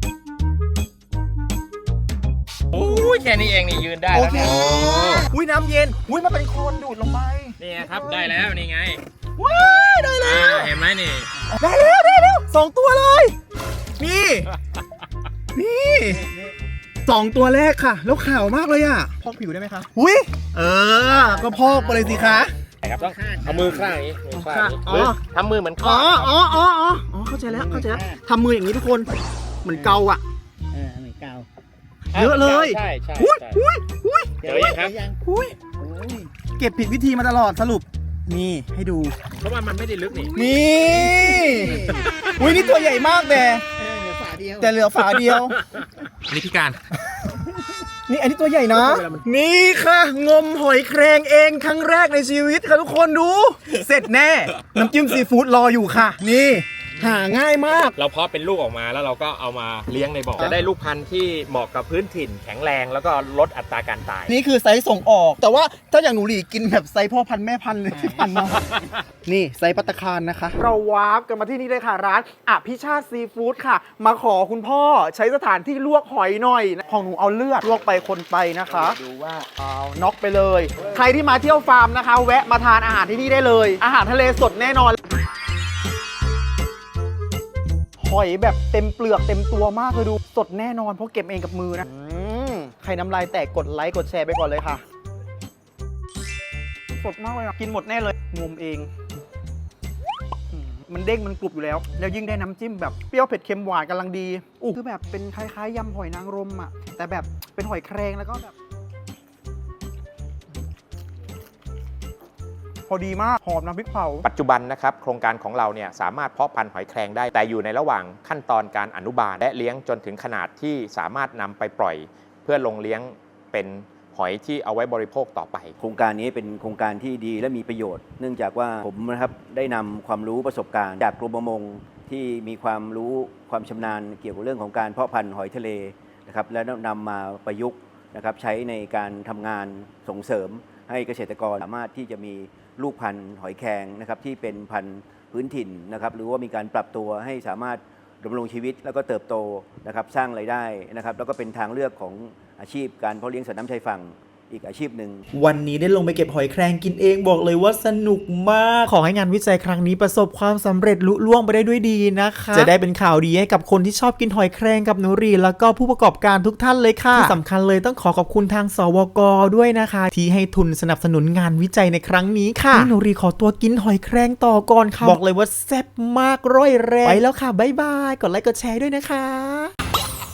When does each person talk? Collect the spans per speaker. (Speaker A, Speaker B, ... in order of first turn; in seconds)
Speaker A: 2.7-5.3, 7.6-9.0, 10.2-11.3, 22.8-26.3, 32.1-33.6, 34.4-35.0, 39.4-40.4, 42.0-42.3, 46.0-46.8, 58.0-64.3, 114.2-125.8
Speaker B: 4.1-8.2, 9.4-10.7, 11.5-13.3, 14.0-14.5, 15.5-16.3, 17.1-22.5, 24.3-25.2, 25.8-29.1, 29.6-30.2, 32.1-34.5, 35.2-35.5, 36.6-39.2, 40.3-43.6, 44.6-45.5, 48.1-58.0, 64.3-85.0, 88.0-94.8, 97.0-98.9, 100.5-108.5, 112.9-114.3
Speaker C: 21.1-22.3, 23.0-23.9, 27.5-28.2, 29.7-30.0, 30.7-31.5, 34.4-35.2, 35.8-36.3, 41.4-42.1, 43.8-44.7
Speaker D: 125.8-155.2
Speaker E: 155.3-179.7